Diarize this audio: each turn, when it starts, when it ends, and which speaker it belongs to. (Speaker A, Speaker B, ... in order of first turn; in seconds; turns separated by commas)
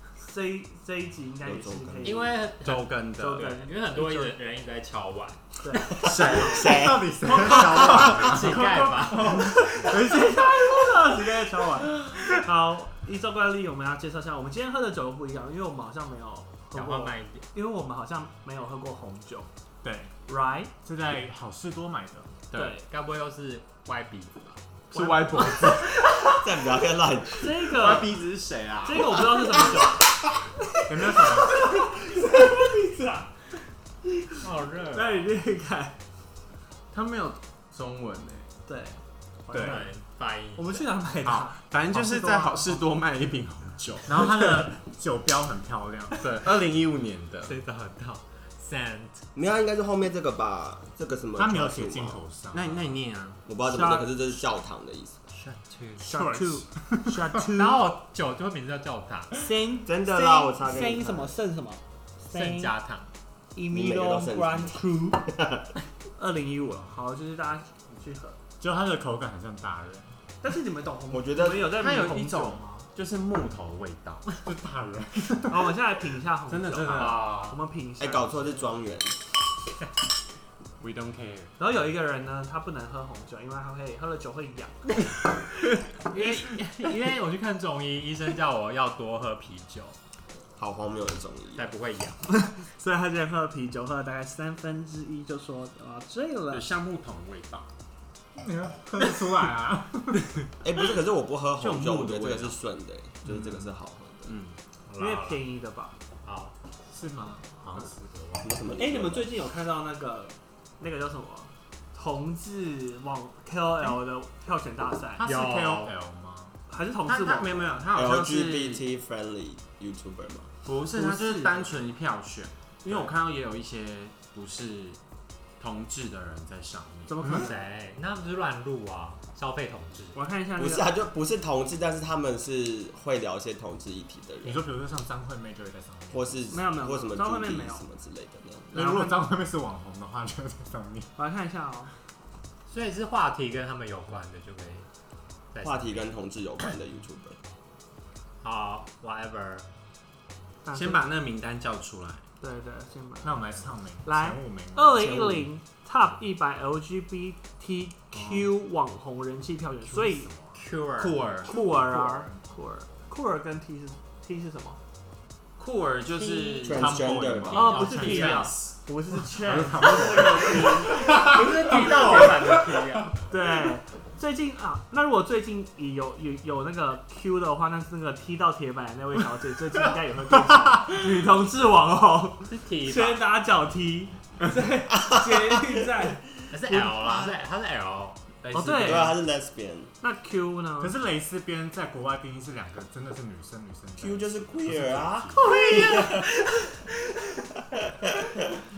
Speaker A: 0.2-2.5, Speaker B: 1.4-2.3, Speaker C: 2.0-6.5, Speaker D: 2.6-3.6, Speaker A: 3.2-4.3, Speaker A: 5.6-6.5, Speaker B: 6.0-7.1, Speaker D: 6.0-6.8, Speaker E: 6.5-11.9, Speaker A: 7.2-8.3, Speaker C: 7.5-9.5, Speaker D: 7.7-8.1, Speaker A: 9.1-19.5, Speaker C: 16.7-17.4, Speaker E: 19.8-20.1, Speaker A: 20.3-20.7, Speaker E: 20.8-22.3, Speaker D: 22.5-22.8, Speaker A: 22.5-22.8, Speaker C: 22.9-24.6, Speaker D: 24.9-25.9, Speaker A: 24.9-25.9, Speaker B: 26.2-27.9, Speaker A: 27.4-28.1, Speaker D: 27.7-29.3, Speaker A: 28.8-33.3, Speaker E: 30.9-31.6, Speaker C: 34.4-35.4, Speaker A: 34.9-36.0, Speaker D: 36.9-38.5, Speaker A: 38.7-39.9, Speaker E: 39.5-39.8, Speaker C: 39.6-40.9, Speaker A: 40.5-42.8, Speaker D: 41.2-44.3, Speaker E: 44.1-46.1, Speaker D: 46.2-47.5, Speaker C: 47.4-49.2, Speaker B: 49.3-52.2, Speaker E: 51.4-53.0, Speaker D: 52.5-53.4, Speaker B: 53.5-55.3, Speaker A: 53.7-54.1, Speaker C: 55.3-56.1, Speaker A: 56.0-57.8, Speaker E: 56.1-57.1, Speaker C: 57.5-59.3, Speaker A: 59.3-62.7, Speaker B: 59.8-61.3, Speaker C: 62.2-63.1, Speaker A: 63.5-65.2, Speaker B: 63.7-65.7, Speaker A: 66.2-68.4, Speaker E: 68.6-70.2, Speaker A: 70.4-72.9, Speaker B: 71.1-71.8, Speaker D: 71.8-74.4, Speaker E: 74.5-75.7, Speaker A: 75.5-78.7, Speaker D: 76.5-77.3, Speaker C: 76.9-77.6, Speaker B: 78.0-79.2, Speaker D: 80.8-81.5, Speaker A: 81.6-85.4, Speaker A: 85.9-87.1, Speaker C: 86.1-89.9, Speaker B: 90.6-91.7, Speaker C: 91.5-92.2, Speaker A: 92.3-96.7, Speaker D: 96.5-97.7, Speaker E: 98.3-100.3, Speaker B: 100.6-104.3, Speaker D: 101.6-102.6, Speaker D: 104.2-104.6, Speaker C: 104.9-105.4, Speaker A: 105.0-105.9, Speaker C: 106.2-106.5, Speaker E: 106.9-108.6, Speaker B: 108.4-109.3, Speaker A: 108.7-115.2, Speaker E: 115.2-116.6, Speaker C: 115.2-116.0, Speaker A: 116.7-117.7, Speaker D: 117.0-118.8, Speaker B: 117.9-120.5, Speaker D: 120.7-125.0, Speaker A: 120.9-121.7, Speaker D: 125.6-127.1, Speaker A: 127.1-127.6, Speaker C: 127.3-130.2, Speaker A: 130.1-130.9, Speaker B: 130.6-134.6, Speaker E: 134.4-136.4, Speaker B: 136.1-138.7, Speaker A: 136.5-137.8, Speaker A: 138.7-139.2, Speaker E: 138.7-141.1, Speaker A: 141.2-141.9, Speaker C: 142.7-144.9, Speaker C: 145.5-146.1, Speaker B: 145.6-147.4, Speaker C: 148.4-149.7, Speaker A: 150.6-151.0, Speaker D: 150.7-152.2, Speaker A: 152.4-153.5, Speaker E: 153.2-155.2, Speaker A: 154.0-160.3, Speaker B: 154.9-155.5, Speaker E: 158.1-158.4, Speaker E: 159.8-160.6, Speaker C: 160.5-161.2, Speaker D: 161.0-161.5, Speaker A: 161.4-164.8, Speaker E: 161.5-162.4, Speaker D: 165.6-167.0, Speaker C: 166.1-166.9, Speaker B: 166.6-167.8, Speaker E: 166.7-168.2, Speaker C: 167.5-168.5, Speaker A: 167.6-171.0, Speaker D: 167.8-168.7, Speaker E: 169.3-172.8, Speaker C: 170.4-173.2, Speaker A: 173.3-187.3, Speaker C: 182.5-183.2, Speaker B: 184.9-185.6, Speaker C: 186.5-188.2, Speaker D: 188.4-189.2, Speaker A: 188.5-189.1, Speaker B: 188.8-189.9, Speaker A: 190.0-190.9, Speaker E: 190.8-195.5, Speaker B: 194.0-196.3, Speaker C: 195.3-196.9, Speaker B: 197.7-198.4